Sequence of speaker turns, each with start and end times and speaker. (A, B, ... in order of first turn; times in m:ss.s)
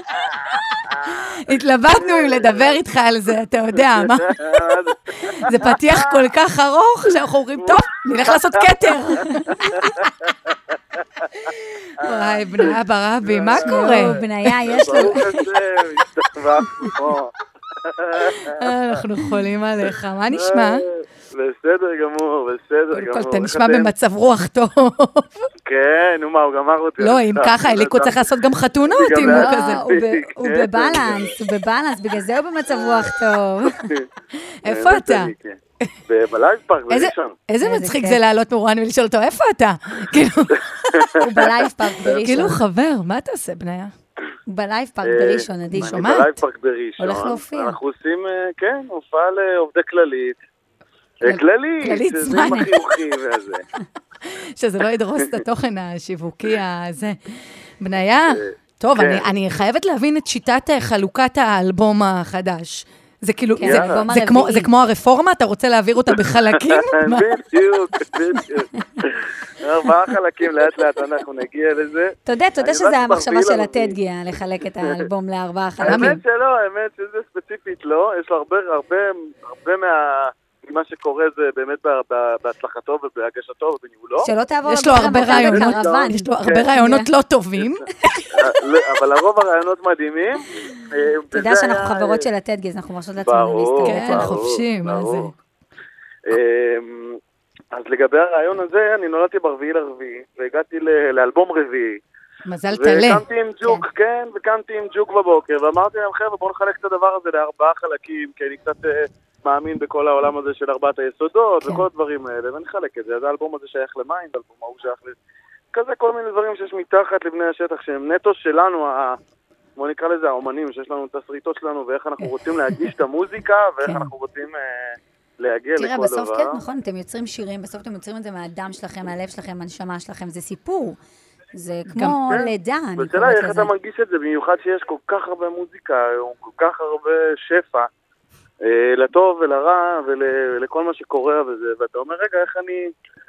0:00.5-0:10.3 A
0:02.0-0:02.7 B
0:04.0-0:06.2 B
0:07.6-0:10.0 B
0:11.4-0:15.6 A
0:12.0-0:19.0 B
0:13.5-0:15.2 C
0:18.2-0:20.8 A
0:19.9-0:23.9 B
0:22.9-0:25.5 A
0:25.6-0:28.2 B
0:27.0-0:29.8 A
0:28.9-0:31.3 B
0:29.2-0:33.9 C
0:34.6-0:35.3 A
0:34.6-0:35.6 B
0:36.1-0:37.4 B
0:36.9-0:41.5 A
0:37.6-0:38.2 C
0:41.2-0:42.6 C
0:42.0-0:42.3 B
0:42.1-0:43.9 A
0:44.5-0:46.1 C
0:45.0-0:50.4 B
0:45.7-0:46.4 A
0:47.0-0:47.8 C
0:51.2-0:53.6 B
0:51.2-0:53.0 A
0:52.4-0:52.7 C
0:54.2-1:08.0 A
0:58.4-0:59.2 B
1:03.6-1:04.7 C
1:03.6-1:04.0 B
1:06.5-1:14.0 B
1:12.2-1:16.2 C
1:15.8-1:24.3 B
1:15.8-1:16.2 A
1:24.2-1:27.1 C
1:24.7-1:28.5 A
1:24.9-1:26.7 B
1:28.3-1:32.2 B
1:31.3-1:34.4 C
1:33.2-1:35.3 B
1:33.8-1:35.3 A
1:36.3-1:37.2 B
1:37.7-1:42.0 B
1:42.5-1:43.2 A
1:42.7-1:55.2 B
1:55.7-1:59.2 B
1:59.8-2:06.6 B
2:03.8-2:04.1 A
2:05.8-2:11.0 C
2:11.5-2:13.7 C
2:11.9-2:12.2 A
2:12.3-2:17.9 B
2:18.6-2:22.9 B